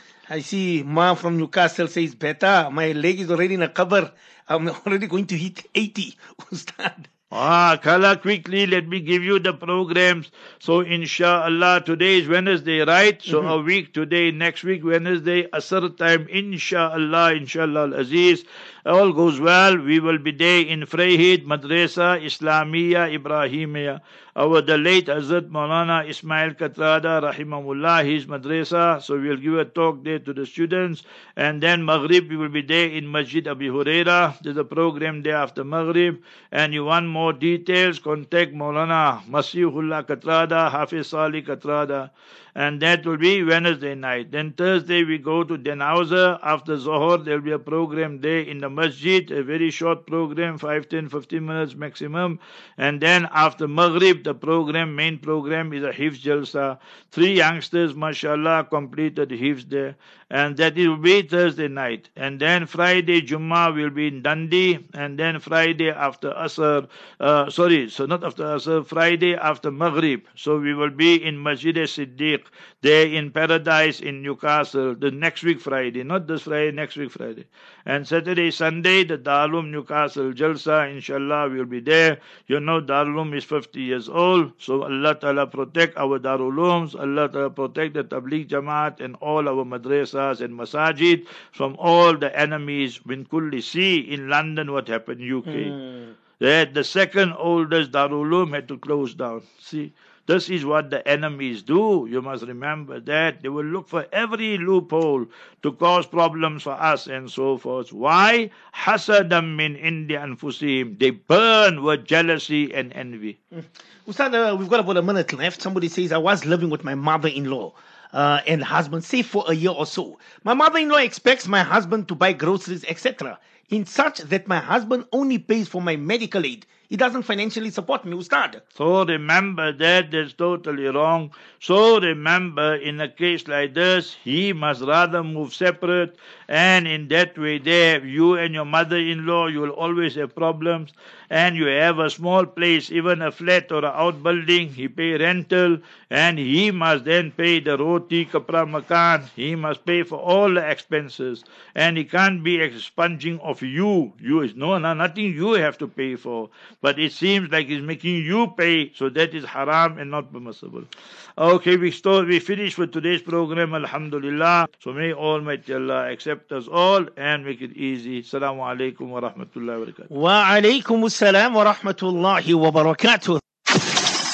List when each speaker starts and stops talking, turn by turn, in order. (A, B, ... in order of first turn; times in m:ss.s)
0:00.3-0:07.1 A
0:07.3-1:35.8 B
1:35.5-1:36.1 A
1:36.4-1:53.4 B
1:53.6-2:08.6 A
2:08.8-2:50.1 B
2:50.1-2:53.4 A